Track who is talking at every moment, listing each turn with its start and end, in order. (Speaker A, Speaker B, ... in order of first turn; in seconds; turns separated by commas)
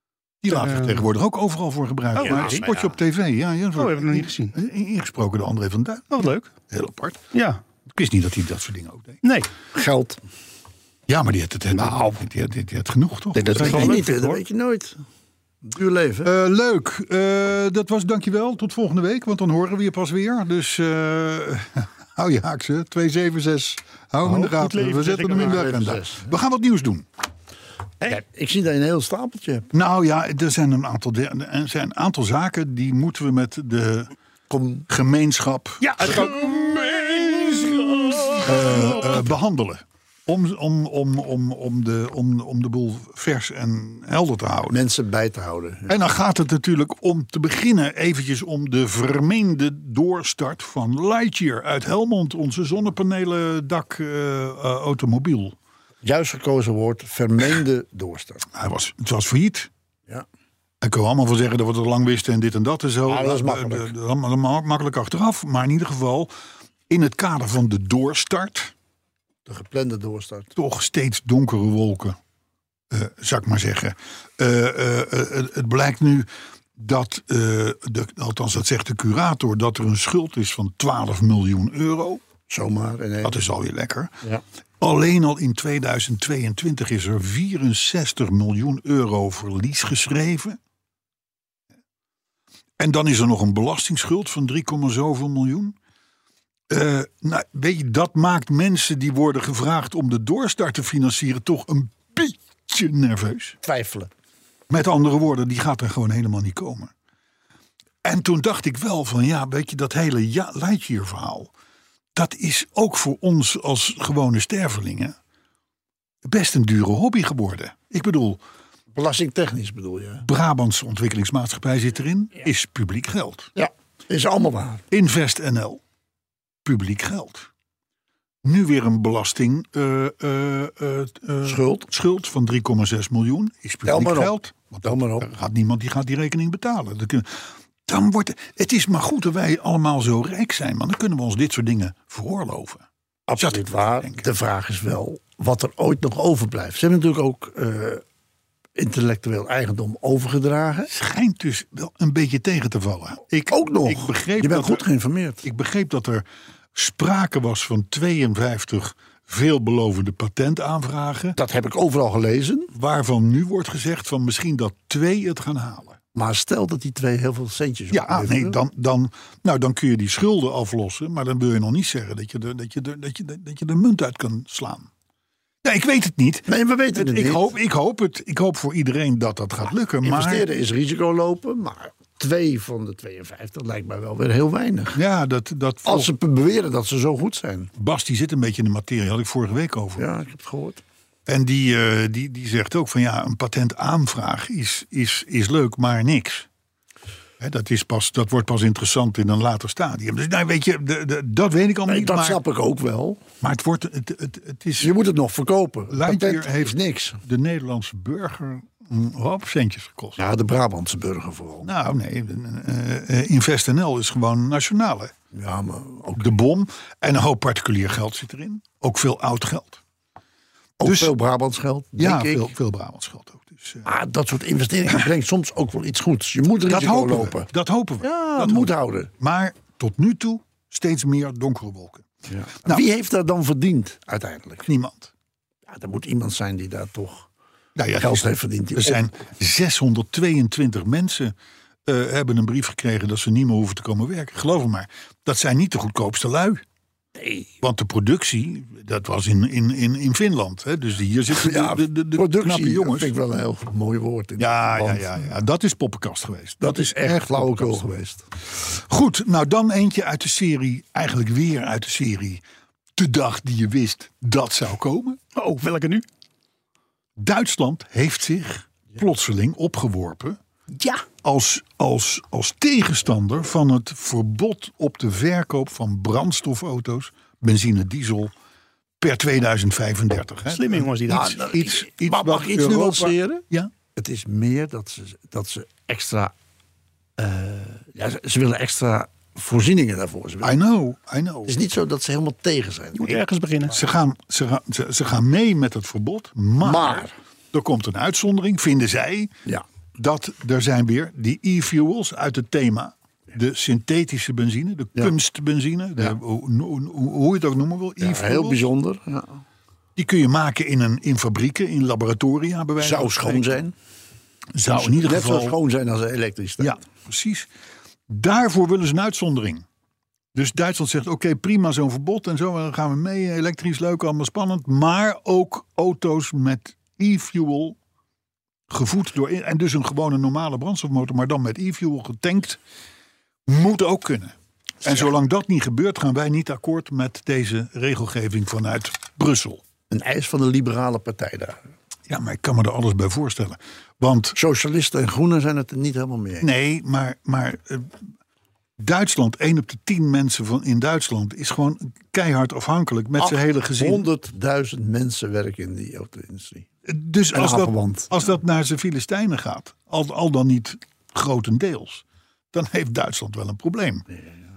Speaker A: 0.4-7.2, Speaker B: 0.5-1.1, Speaker B: 2.2-2.7, Speaker C: 2.2-2.7, Speaker B: 3.8-4.6, Speaker B: 6.1-6.5, Speaker B: 7.3-7.6, Speaker A: 7.9-9.2, Speaker B: 9.2-9.5, Speaker C: 9.7-10.2, Speaker A: 11.1-14.1, Speaker B: 11.8-12.2, Speaker B: 13.4-14.4, Speaker C: 13.4-15.0, Speaker C: 15.6-16.3, Speaker A: 16.2-27.1, Speaker B: 24.2-25.8, Speaker C: 25.3-26.2, Speaker C: 28.1-29.7, Speaker A: 29.7-34.1, Speaker C: 34.5-34.9, Speaker A: 34.9-36.3, Speaker B: 35.8-39.2, Speaker A: 38.4-44.8, Speaker C: 44.7-46.0, Speaker A: 45.9-55.6, Speaker C: 56.0-58.5, Speaker A: 58.5-59.7, Speaker A: 60.8-66.3, Speaker C: 63.1-63.9, Speaker A: 66.9-68.7, Speaker C: 69.5-70.5, Speaker A: 70.6-72.2, Speaker A: 72.9-82.2, Speaker C: 82.5-83.4, Speaker A: 83.2-84.1, Speaker A: 84.8-90.6, Speaker A: 92.8-95.8, Speaker A: 96.7-103.6, Speaker C: 103.6-104.1, Speaker A: 104.7-106.9, Speaker A: 108.0-111.5, Speaker A: 112.2-115.2, Speaker A: 116.2-118.4, Speaker C: 118.9-120.2, Speaker A: 120.2-123.5, Speaker C: 123.5-124.8, Speaker A: 124.9-125.8, Speaker A: 126.7-127.5, Speaker A: 128.4-142.8, Speaker C: 131.4-131.9, Speaker C: 133.8-135.3, Speaker C: 143.3-148.0, Speaker A: 143.4-144.3, Speaker C: 148.8-150.9, Speaker A: 150.9-154.8, Speaker C: 153.5-155.4, Speaker A: 155.4-161.4, Speaker C: 161.4-162.7, Speaker A: 162.7-166.0, Speaker C: 166.2-168.6, Speaker A: 167.9-174.9, Speaker A: 175.6-180.5, Speaker C: 176.5-177.5, Speaker C: 180.0-185.0, Speaker A: 184.9-186.1, Speaker C: 185.8-187.7, Speaker A: 187.8-190.1, Speaker C: 190.0-190.8, Speaker A: 191.3-196.5, Speaker A: 197.4-202.4, Speaker C: 201.9-203.2, Speaker A: 203.4-204.9, Speaker C: 204.8-207.2, Speaker A: 205.9-210.2, Speaker C: 210.2-211.7, Speaker A: 211.6-215.1, Speaker C: 215.3-216.3, Speaker A: 216.2-219.8, Speaker C: 220.8-222.5, Speaker A: 220.8-221.1, Speaker A: 222.0-223.9, Speaker C: 223.8-227.5, Speaker A: 226.7-232.1, Speaker C: 228.0-229.1, Speaker C: 232.3-234.7, Speaker A: 234.7-235.1, Speaker C: 235.7-237.3, Speaker A: 237.8-241.3, Speaker C: 238.0-239.1, Speaker A: 241.9-246.6, Speaker C: 247.2-247.5, Speaker A: 247.6-253.1, Speaker C: 251.3-255.1, Speaker A: 254.4-257.8, Speaker C: 256.6-258.2, Speaker A: 258.5-262.4, Speaker A: 263.0-265.2, Speaker B: 265.4-266.0, Speaker A: 267.2-270.4, Speaker A: 271.2-278.3, Speaker A: 279.0-283.7, Speaker B: 280.5-281.4, Speaker C: 281.1-283.4, Speaker C: 283.9-286.3, Speaker C: 287.2-290.6, Speaker A: 290.4-291.6, Speaker C: 291.5-293.2, Speaker B: 293.0-293.8, Speaker A: 293.7-299.3, Speaker C: 296.6-297.2, Speaker A: 299.9-308.6, Speaker C: 308.0-309.4, Speaker A: 310.0-313.6, Speaker C: 312.8-313.7, Speaker A: 314.6-315.6, Speaker C: 314.7-316.8, Speaker A: 316.6-317.5, Speaker A: 318.1-319.6, Speaker A: 320.3-327.8, Speaker A: 328.7-332.6, Speaker A: 333.5-339.6, Speaker C: 339.9-341.6, Speaker A: 342.1-344.4, Speaker C: 344.4-346.5, Speaker A: 346.4-348.0, Speaker A: 348.8-354.1, Speaker C: 353.2-356.7, Speaker A: 356.9-364.1, Speaker C: 357.3-358.2